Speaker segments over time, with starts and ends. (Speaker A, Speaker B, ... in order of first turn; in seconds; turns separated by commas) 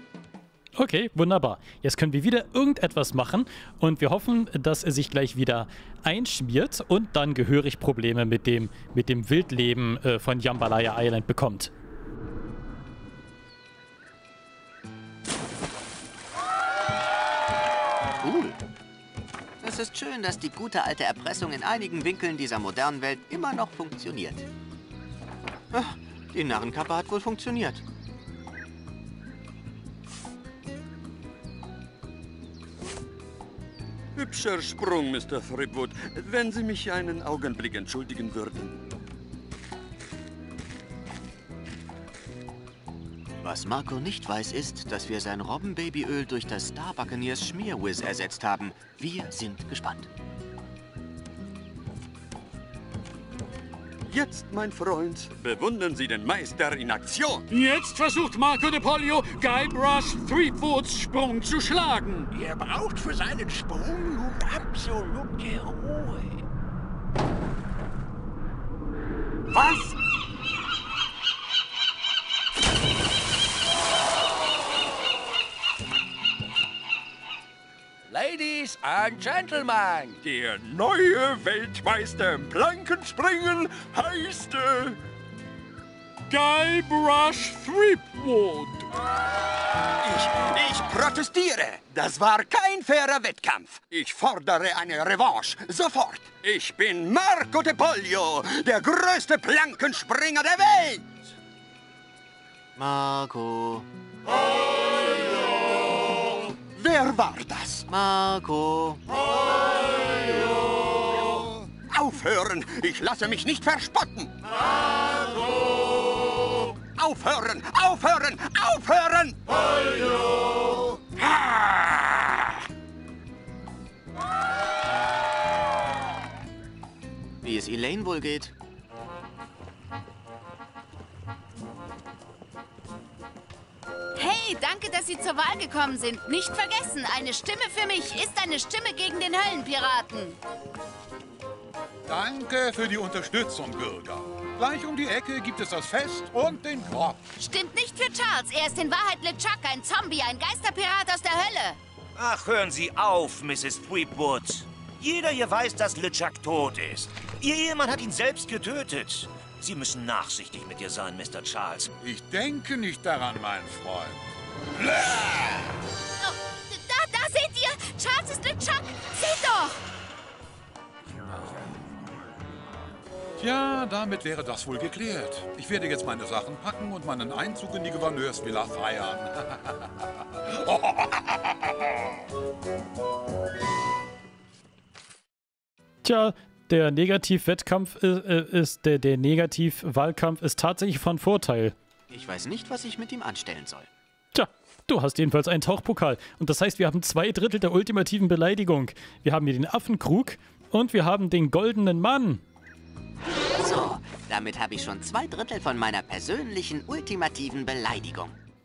Speaker A: 0.8-11.7, Speaker B: 18.2-18.6, Speaker B: 19.6-24.5, Speaker B: 25.7-27.8, Speaker C: 34.1-38.8, Speaker B: 43.4-50.1, Speaker C: 54.0-57.4, Speaker D: 57.5-62.3, Speaker E: 62.3-66.4, Speaker E: 69.5-69.9, Speaker F: 78.1-80.2, Speaker E: 80.2-85.0, Speaker D: 86.3-88.9, Speaker C: 90.0-101.0, Speaker B: 102.8-103.9, Speaker C: 106.7-107.8, Speaker B: 107.9-109.0, Speaker C: 111.9-114.3, Speaker C: 116.9-120.3, Speaker C: 121.2-122.2, Speaker B: 127.4-128.5, Speaker G: 134.2-140.4, Speaker H: 142.1-147.2, Speaker G: 147.4-151.8, Speaker I: 152.2-161.9, Speaker H: 162.0-164.2, Speaker G: 166.2-169.8, Speaker H: 173.4-179.9, Speaker H: 180.5-181.5, Speaker A: 186.0-191.7, Speaker B: 192.1-193.9, Speaker A: 194.3-202.4, Speaker B: 203.4-208.3